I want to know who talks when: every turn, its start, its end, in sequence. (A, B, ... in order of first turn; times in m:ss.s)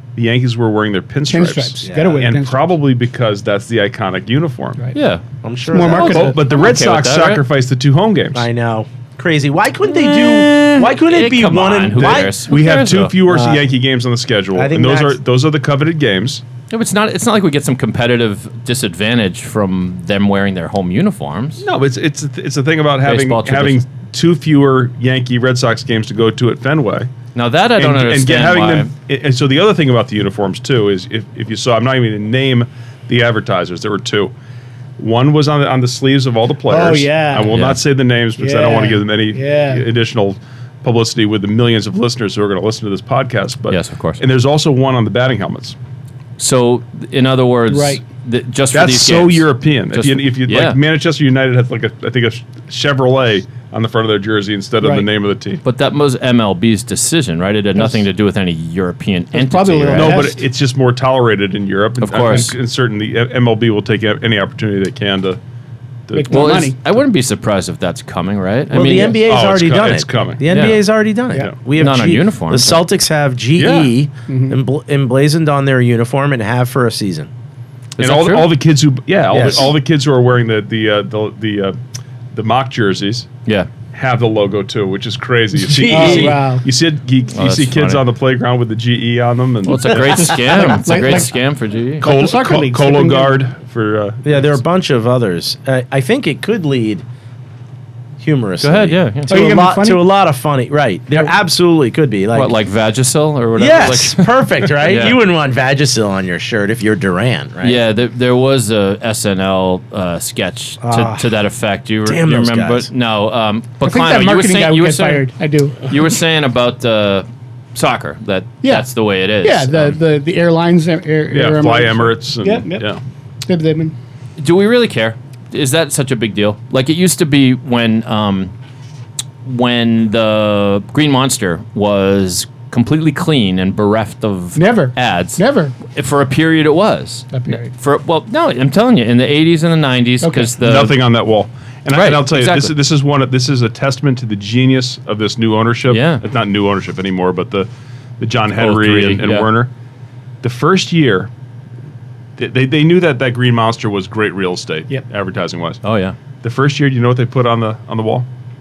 0:00.2-0:04.8 A
0:01.3-0:02.7 B
0:01.8-0:02.2 C
0:04.9-0:05.2 D
0:05.4-0:06.4 C
0:05.7-0:06.6 B
0:05.9-0:07.4 D
0:05.9-0:08.4 A
0:08.3-0:12.3 C
0:09.8-0:13.2 D
0:11.9-0:16.4 A
0:13.3-0:13.7 C
0:14.5-0:15.2 C
0:16.7-0:21.6 D
0:21.6-0:27.1 A
0:23.0-0:23.8 D
0:27.3-0:28.9 D
0:27.8-0:34.3 A
0:35.0-0:45.8 A
0:36.7-0:37.6 B
0:37.5-0:37.8 D
0:38.4-0:39.8 B
0:43.7-0:44.2 D
0:46.4-0:50.8 D
0:47.7-0:48.0 B
0:48.7-0:55.6 A
0:54.8-0:55.0 B
0:55.6-1:00.3 D
0:59.3-1:00.4 B
0:59.9-1:05.4 A
1:02.0-1:02.5 D
1:06.1-1:06.7 A
1:06.1-1:06.8 B
1:06.3-1:09.2 D
1:08.7-1:17.3 C
1:09.2-1:10.4 A
1:10.5-1:10.8 D
1:11.7-1:12.8 D
1:13.6-1:13.9 A
1:14.3-1:14.6 B
1:18.0-1:18.5 D
1:18.0-1:21.8 A
1:19.3-1:19.7 C
1:22.3-1:23.3 A
1:23.9-1:30.3 A
1:25.6-1:26.4 C
1:25.9-1:26.6 B
1:27.3-1:28.0 D
1:29.6-1:32.1 D
1:30.0-1:31.3 B
1:32.0-1:33.4 B
1:32.0-1:34.6 A
1:34.2-1:37.0 C
1:38.2-1:42.6 C
1:38.6-1:39.3 D
1:39.2-1:40.1 B
1:42.3-1:45.2 D
1:43.6-1:47.8 C
1:47.6-1:55.3 D
1:50.8-1:51.4 C
1:52.0-1:52.9 C
1:53.8-1:55.9 B
1:55.8-2:00.0 D
1:58.6-1:58.9 B
1:59.4-2:02.9 B
2:01.3-2:03.0 A
2:03.4-2:03.9 B
2:04.4-2:08.5 D
2:09.4-2:21.0 D
2:14.6-2:15.8 B
2:17.3-2:17.7 B
2:20.2-2:20.5 B
2:20.6-2:27.7 A
2:21.9-2:22.7 D
2:25.9-2:26.2 D
2:28.2-2:29.7 A
2:28.5-2:29.5 D
2:30.4-2:31.3 A
2:32.4-2:35.8 A
2:35.8-2:36.2 D
2:36.4-2:38.3 A